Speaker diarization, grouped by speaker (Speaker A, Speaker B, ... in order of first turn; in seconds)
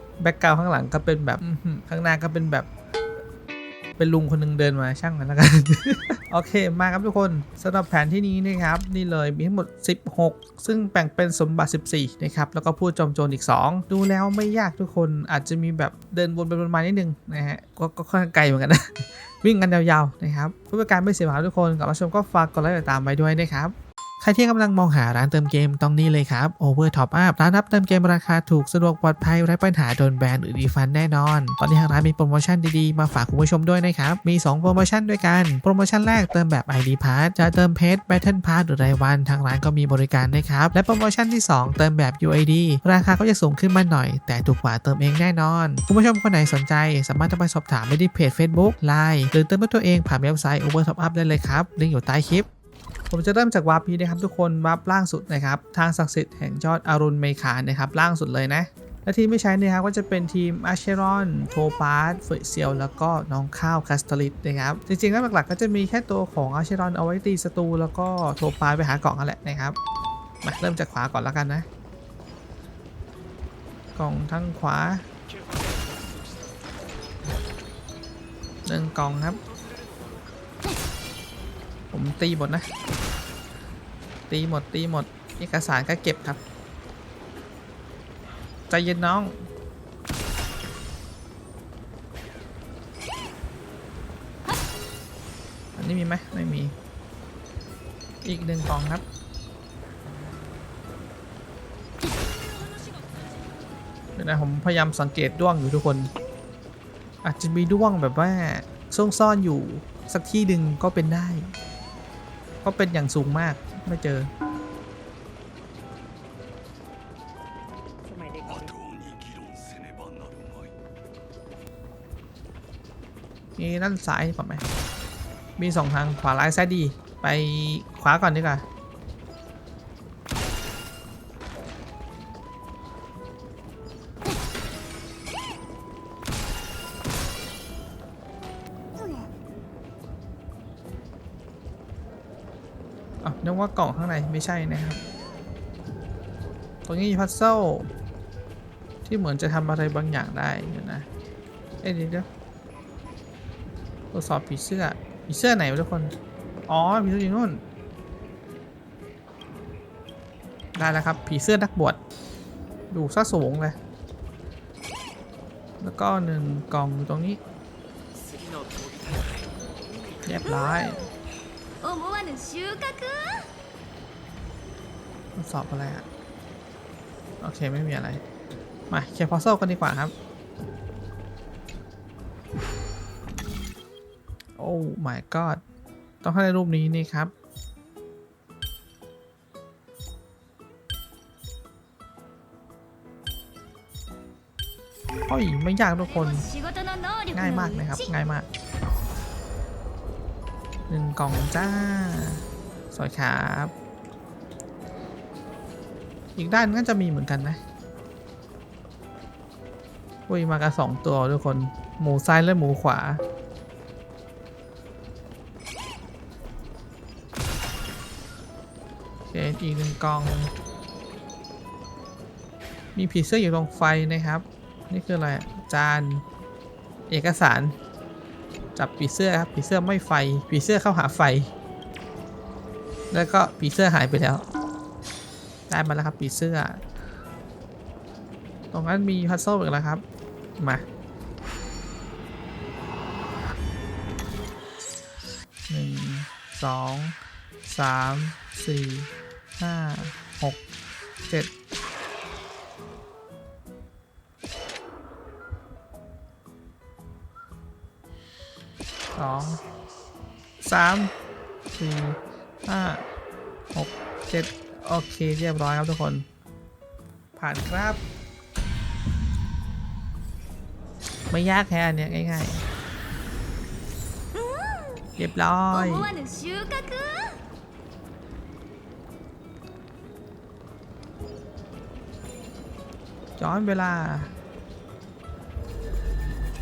Speaker A: 0.2-2.7, 4.0-52.5, 53.1-69.8, 70.4-71.7, 74.0-75.0, 78.7-79.4, 81.9-82.7, 84.3-86.4, 88.7-89.5, 95.8-96.7, 98.2-99.0, 104.2-106.1, 107.2-111.5, 112.6-114.3, 123.6-124.6, 125.6-128.6, 143.2-145.0, 146.8-147.9, 149.0-151.1, 151.8-152.3, 154.1-156.1, 156.7-157.6, 160.8-162.0, 162.9-163.8, 165.8-167.4, 170.2-171.0, 175.4-176.0, 177.4-178.2, 178.9-180.1, 184.6-185.6, 186.2-187.3, 195.3-196.4, 197.3-198.5, 200.9-203.7, 206.3-207.6, 210.3-213.2, 219.3-220.5, 222.9-226.2, 227.1-227.8, 228.8-231.5, 233.1-234.5, 235.7-236.8, 238.7-240.0, 240.6-240.8, 245.7-247.1, 247.7-250.6, 259.1-259.6, 260.6-261.1, 261.7-263.0, 263.7-266.3, 267.4-268.0, 271.3-272.6, 275.2-276.1, 283.4-284.3
Speaker B: 118.1-120.7, 168.2-169.4
Speaker C: 170.4-171.2, 171.8-173.5, 196.0-198.1, 274.3-275.1, 275.7-277.4